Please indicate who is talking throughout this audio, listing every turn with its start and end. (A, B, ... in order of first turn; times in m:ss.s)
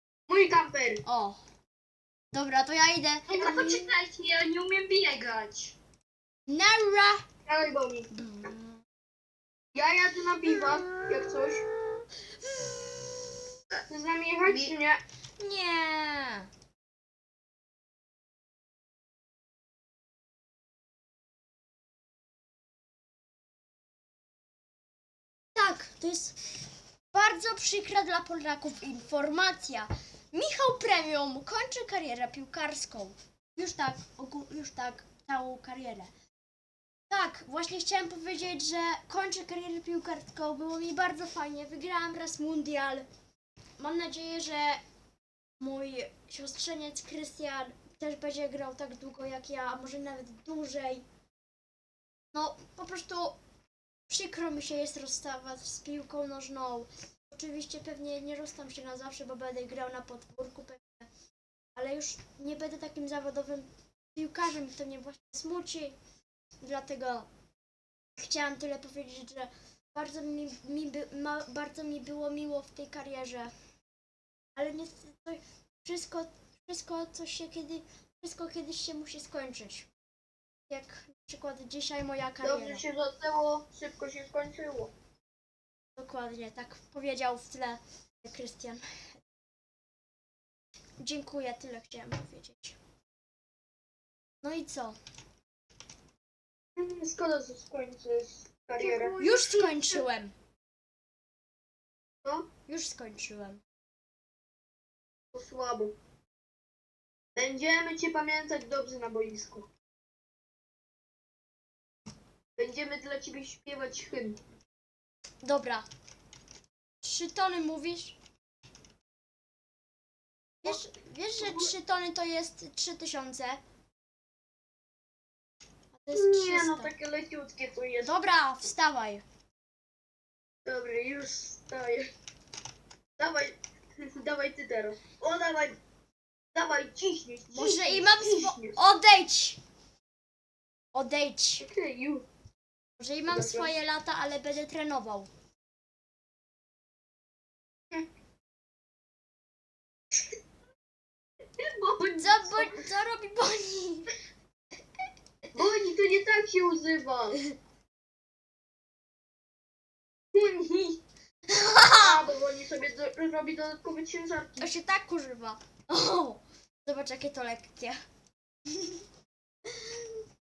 0:00.3-0:01.0 A
0:01.0-0:01.4 B
0:02.3-0:03.8 B
0:03.3-0:04.4 A
0:03.3-0:05.7 C
0:05.4-0:05.7 A
0:06.5-0:07.2 B
0:07.4-0:08.1 A
0:08.1-0:08.8 B
0:09.7-0:11.6 A
0:10.7-0:11.0 B
0:13.9-0:15.0 A
0:14.5-0:14.7 B
0:15.4-0:16.5 B
0:25.5-0:26.4 B
0:27.1-0:36.1 B
0:37.1-0:43.0 B
0:43.8-0:44.8 B
0:45.6-0:51.0 B
0:52.3-0:53.4 B
0:54.1-1:01.1 B
1:01.8-1:06.0 B
1:06.6-1:07.3 B
1:08.2-1:13.5 B
1:14.6-1:19.9 B
1:20.7-1:22.8 B
1:22.4-1:24.9 A
1:26.0-1:28.8 B
1:31.0-1:32.8 B
1:34.4-1:35.0 B
1:36.8-1:39.2 A
1:38.8-1:39.9 C
1:39.2-1:40.3 B
1:42.7-1:43.6 B
1:45.3-1:45.9 A
1:47.3-1:49.7 A
1:52.6-1:54.4 A
1:55.4-1:55.8 B
1:57.0-1:58.2 B
2:00.6-2:03.6 B
2:01.4-2:01.7 A
2:05.9-2:06.9 B
2:06.1-2:08.1 A
2:08.0-2:09.2 B
2:10.6-2:12.1 A
2:13.2-2:15.8 A
2:16.5-2:18.8 A
2:17.5-2:19.6 B
2:20.9-2:21.6 B
2:21.6-2:22.2 A
2:23.0-2:25.3 B
2:23.3-2:23.8 A
2:31.6-2:32.8 A
2:32.0-2:34.1 B
2:35.5-2:37.4 A
2:40.3-2:41.0 A
2:41.5-2:42.2 B
2:42.0-2:44.7 A
2:44.6-2:48.0 B
2:48.7-2:49.0 B
2:49.7-2:50.0 B